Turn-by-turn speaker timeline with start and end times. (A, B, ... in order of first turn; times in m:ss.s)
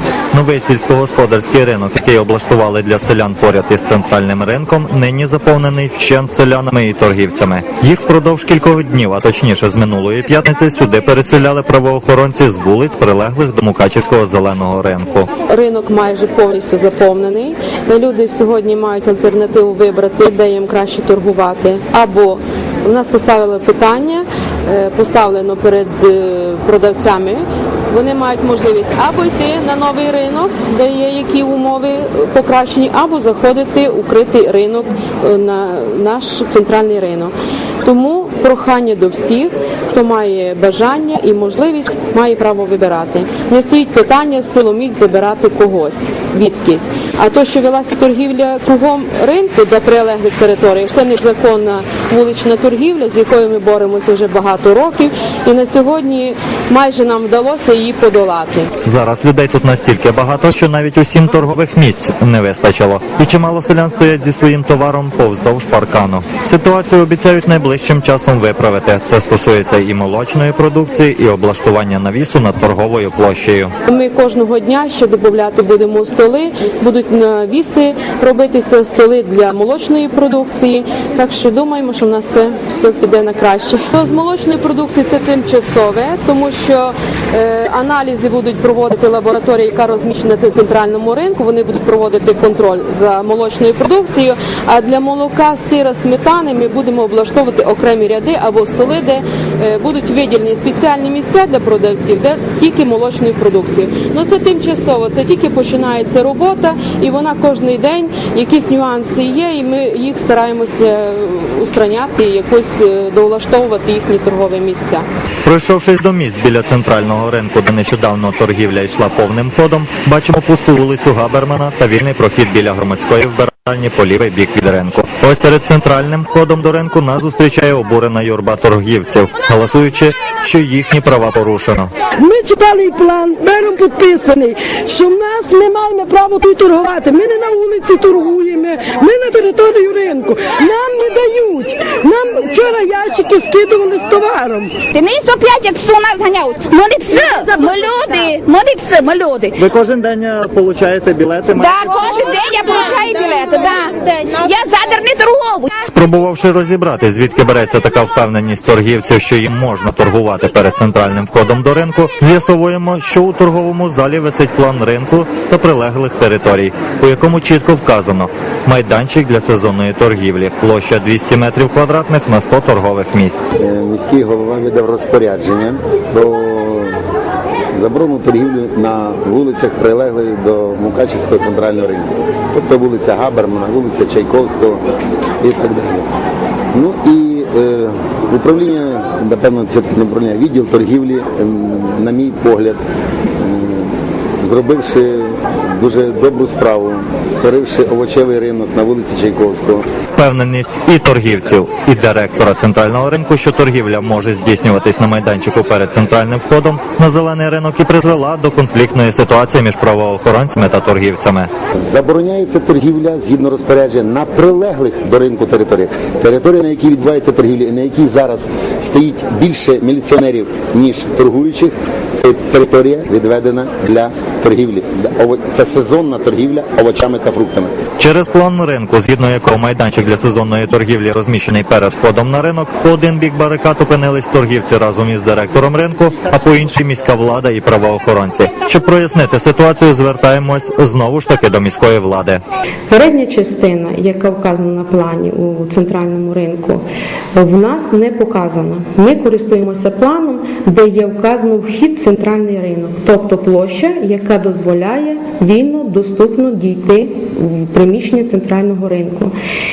0:00.3-0:15.3 A
0:15.5-0:37.3 B
0:37.8-0:58.7 B
0:58.8-1:13.7 A
1:13.8-1:55.0 B
1:55.4-2:11.9 A
2:12.2-2:24.8 C
2:24.9-2:29.5 D
2:29.6-2:31.9 A
2:31.6-2:35.7 D
2:35.8-2:53.4 A
2:53.6-2:57.0 E
2:57.7-3:04.8 E
3:05.4-3:06.1 E
3:06.7-3:12.8 E
3:13.4-3:13.9 E
3:14.4-3:19.9 E
3:20.1-3:31.5 A
3:31.7-3:47.7 E
3:48.0-4:02.4 A
4:02.9-4:06.8 B
4:07.3-4:19.3 B